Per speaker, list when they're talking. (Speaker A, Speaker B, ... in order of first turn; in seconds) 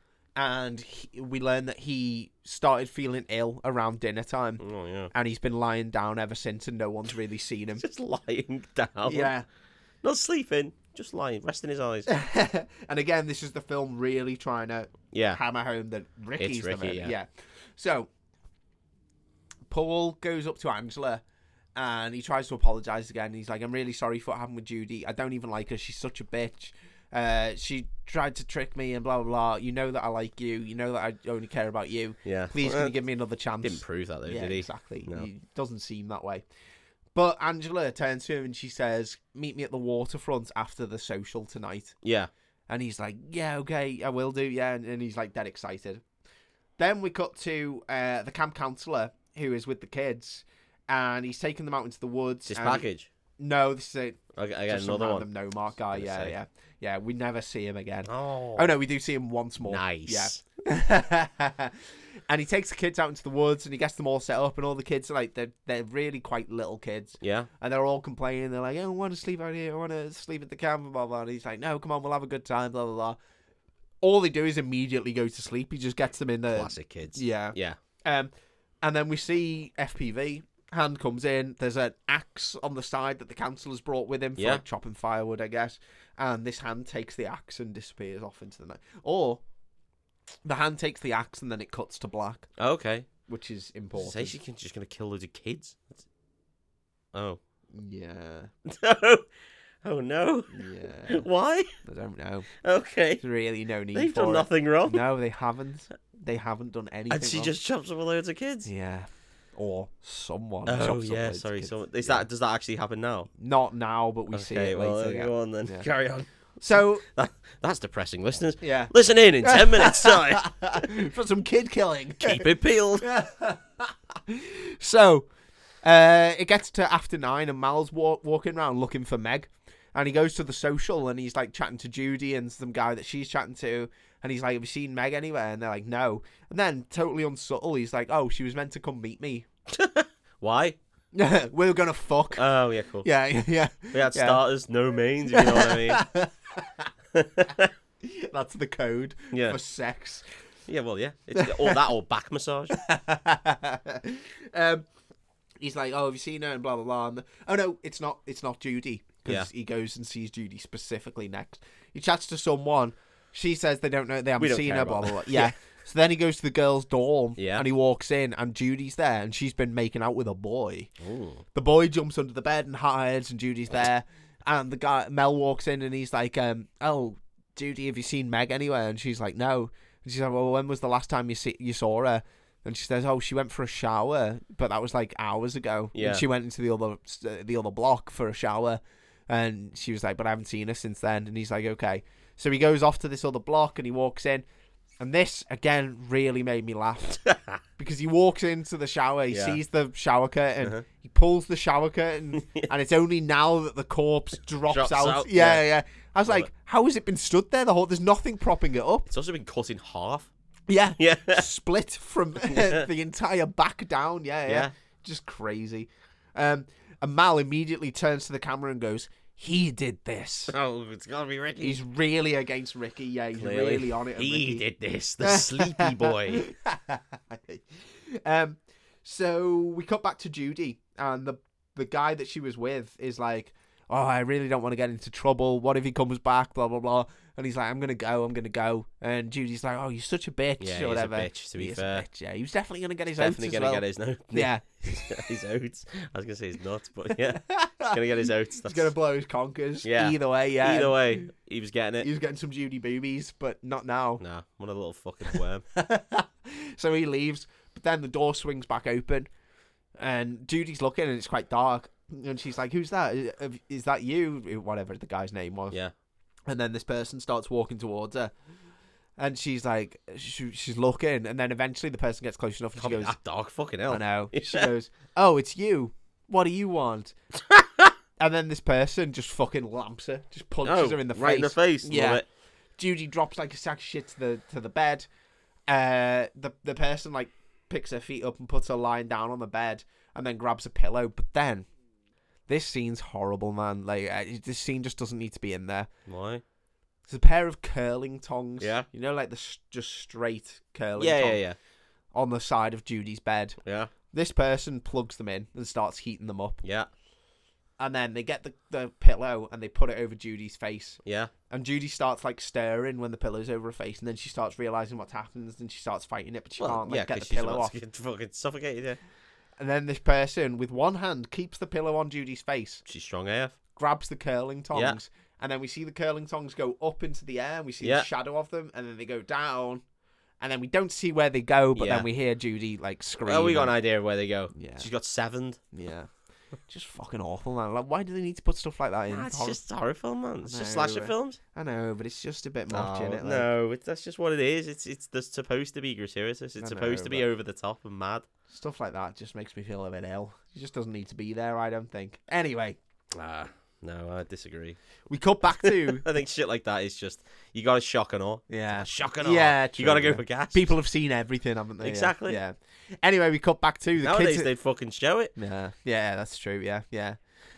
Speaker A: 0.4-7.8, 9.1-9.5, 12.1-18.1, 19.7-21.2, 21.8-36.5, 37.1-42.0, 42.7-46.0, 46.8-52.9, 53.4-73.2, 74.0-78.3, 78.8-89.4, 90.5-92.5, 93.3-94.4, 97.7-98.5, 100.5-101.3, 101.8-102.5, 103.2-107.5, 108.7-112.3, 113.4-115.9, 116.6-117.0, 118.6-125.3, 125.8-139.5, 141.1-142.4, 143.0-144.4, 145.3-146.9, 148.0-150.3, 151.3-151.8, 152.7-154.9, 155.6-170.9, 171.5-194.4, 195.0-197.2, 197.8-209.1, 210.7-220.5, 221.6-224.6, 225.2-245.2, 247.1-248.0, 248.7-251.2, 252.0-254.2, 255.3-259.3, 260.0-265.8, 266.5-268.3, 269.2-273.2, 273.9-277.1, 278.2-282.2, 282.8-285.1, 285.7-291.7, 292.5-295.9, 297.1-301.4, 302.1-303.6, 304.1-306.6, 307.8-317.8, 319.6-322.8, 323.7-329.8, 330.4-333.7, 334.6-334.9, 335.7-336.1, 336.7-339.6, 340.4-343.5, 346.6-347.3, 348.5-352.8, 355.1-356.1, 358.5-364.5, 365.4-367.2
Speaker B: 4.6-5.1, 7.8-9.3, 10.0-12.1, 15.1-15.4, 16.4-17.1, 32.2-33.0, 33.6-35.3, 42.0-42.3, 52.5-53.1, 54.4-55.3, 55.9-56.3, 58.1-58.7, 59.6-60.4, 67.2-67.5, 76.5-77.8, 84.4-84.6, 92.6-93.1, 94.0-96.0, 97.1-97.4, 98.7-99.3, 99.8-101.8, 102.6-103.2, 103.9-105.0, 107.1-108.7, 110.7-113.3, 114.3-121.0, 122.2-123.1, 139.7-140.8, 142.4-143.1, 143.9-146.1, 147.1-147.7, 149.3-149.6, 150.7-152.8, 164.4-165.5, 167.4-167.7, 171.0-171.4, 185.9-186.2, 197.2-197.6, 199.3-199.6, 202.4-202.7, 204.7-205.7, 209.1-210.3, 211.0-211.4, 212.4-212.9, 214.5-214.7, 220.5-221.8, 223.4-226.5, 240.6-242.1, 243.2-248.9, 249.8-252.1, 254.2-255.6, 272.8-274.7, 277.5-277.9, 280.6-282.2, 296.1-296.4, 298.6-298.9, 301.0-301.6, 303.6-303.9, 306.6-306.9, 311.1-311.3, 316.6-319.0, 322.9-323.6, 327.8-328.1, 331.8-332.1, 333.2-335.6, 339.1-341.4, 342.7-348.3, 353.1-354.8, 355.6-360.7, 361.8-362.4, 364.0-365.3